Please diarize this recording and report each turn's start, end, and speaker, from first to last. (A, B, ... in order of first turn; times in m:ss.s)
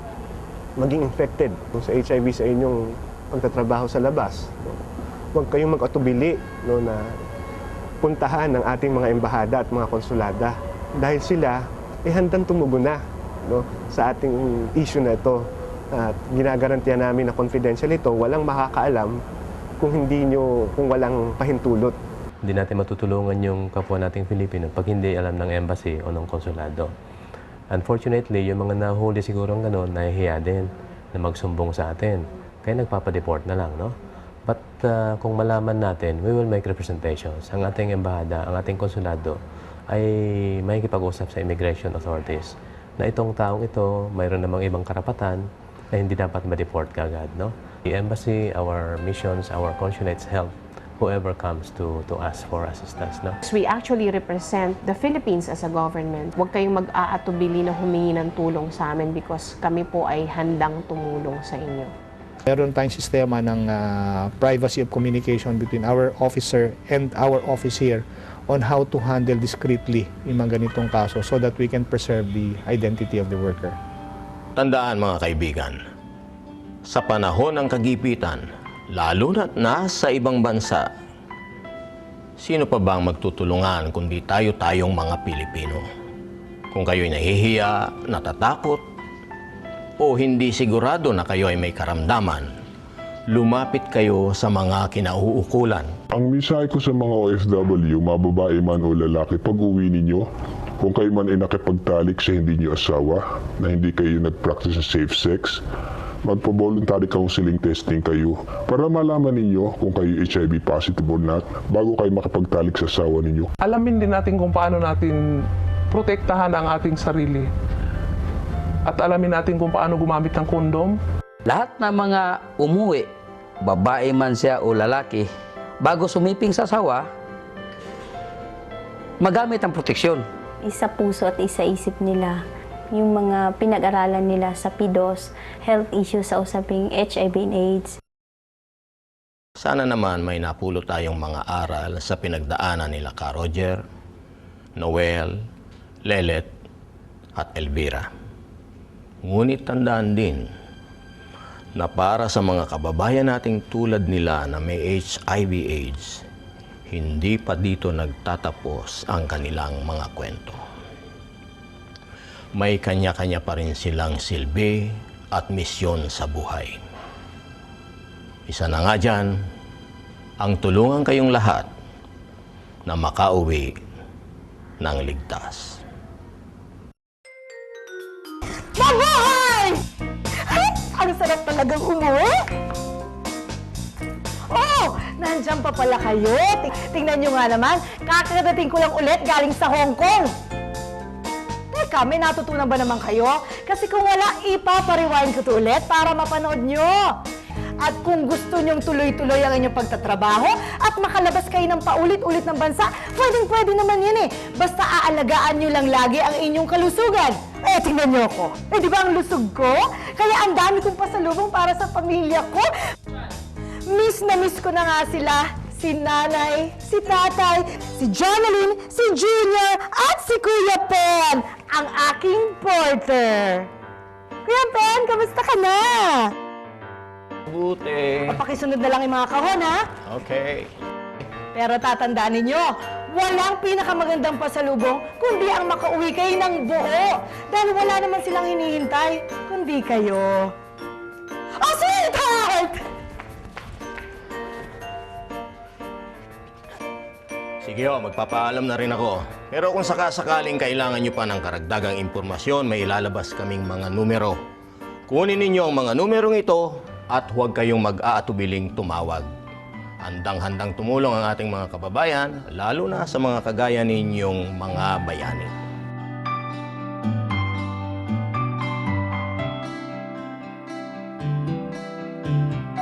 0:00.8-0:02.8 A
0:03.3-0:04.8 A
0:05.3-0:07.0 A
0:08.0-0:13.0 A
0:13.5-0:15.4 A
0:15.9-0:19.1 A
0:19.8-0:21.9 A
0:22.4-0:26.9 B
0:27.7-0:33.9 B
0:34.4-0:39.4 B
0:39.9-0:53.4 B
0:53.4-1:01.9 C
1:02.5-1:13.8 D
1:14.6-1:15.8 E
1:16.8-1:20.8 E
1:22.4-1:25.8 E
1:26.7-1:28.8 E
1:30.0-1:32.5 E
1:33.3-1:35.9 E
1:36.1-1:40.2 F
1:40.8-1:45.6 F
1:46.2-1:53.5 F
1:53.6-1:55.2 G
1:55.9-1:57.5 G
1:58.9-2:01.0 G
2:01.4-2:03.1 H
2:03.6-2:07.1 H
2:09.2-2:10.2 H
2:10.6-2:18.0 I
2:19.6-2:23.8 E
2:24.8-2:25.4 E
2:26.0-2:26.5 E
2:27.4-2:28.1 E
2:29.2-2:30.4 E
2:31.8-2:36.2 E
2:36.9-2:40.6 E
2:42.6-2:46.8 E
2:48.5-2:49.3 E
2:50.4-2:51.7 E
2:52.8-2:53.8 E
2:54.8-2:55.8 E
2:58.8-2:59.8 J
3:00.5-3:02.4 J
3:04.5-3:10.3 J
3:11.7-3:17.1 J
3:17.8-3:32.7 J
3:33.9-3:43.7 J
3:44.4-3:46.3 J
3:47.5-3:48.4 E
3:48.3-3:49.8 J
3:50.1-3:50.7 E
3:51.5-4:00.5 J
4:01.6-4:02.8 J
4:07.6-4:14.4 E
4:15.1-4:19.3 E
4:20.0-4:25.5 E